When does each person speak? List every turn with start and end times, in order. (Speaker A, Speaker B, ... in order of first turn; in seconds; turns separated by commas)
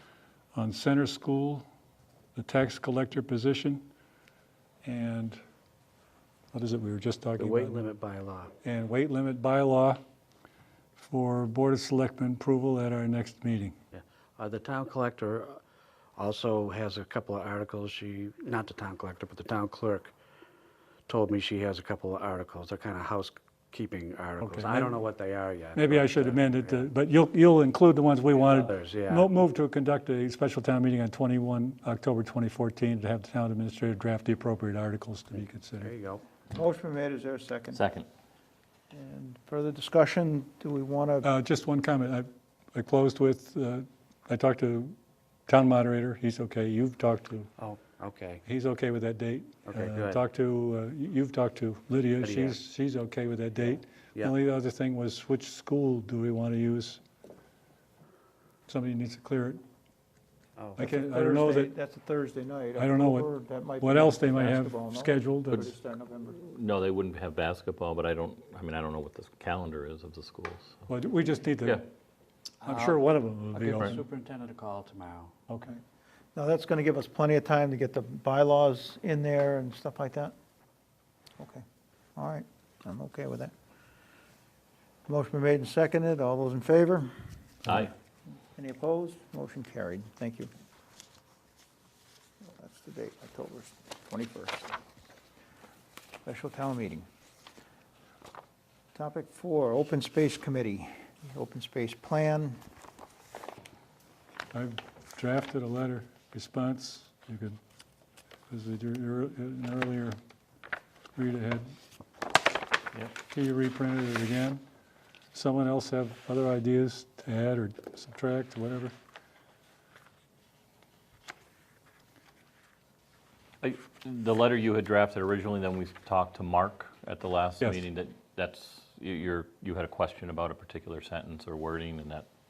Speaker A: 0.5-1.6, Speaker A: 2.3-3.8, Speaker A: 4.8-5.4, Speaker A: 6.5-7.8, Speaker B: 7.4-8.5, Speaker A: 8.6-10.0, Speaker A: 11.0-13.8, Speaker B: 13.9-15.6, Speaker B: 16.1-20.1, Speaker B: 21.1-26.9, Speaker A: 24.4-25.0, Speaker A: 25.7-35.9, Speaker B: 28.3-29.3, Speaker B: 35.8-36.2, Speaker C: 36.5-37.8, Speaker D: 37.7-38.1, Speaker C: 38.9-41.3, Speaker A: 41.2-44.9, Speaker A: 45.5-47.5, Speaker B: 47.6-48.4, Speaker A: 48.4-57.0, Speaker B: 49.7-50.2, Speaker B: 52.2-52.6, Speaker A: 58.7-59.6, Speaker B: 60.5-60.9, Speaker A: 60.8-61.7, Speaker C: 60.9-66.5, Speaker A: 62.8-63.3, Speaker A: 63.8-65.7, Speaker D: 66.4-70.8, Speaker A: 70.9-71.8, Speaker B: 72.6-75.3, Speaker A: 72.6-74.0, Speaker A: 75.5-75.8, Speaker C: 76.3-80.3, Speaker C: 82.2-83.5, Speaker C: 85.0-87.1, Speaker D: 87.7-87.9, Speaker C: 88.5-90.5, Speaker C: 92.6-94.7, Speaker C: 96.2-97.0, Speaker C: 98.9-102.6, Speaker A: 104.5-107.6, Speaker A: 108.5-110.2, Speaker A: 111.1-111.7, Speaker A: 113.3-114.6, Speaker A: 115.3-118.9, Speaker D: 123.6-132.2, Speaker A: 127.6-127.8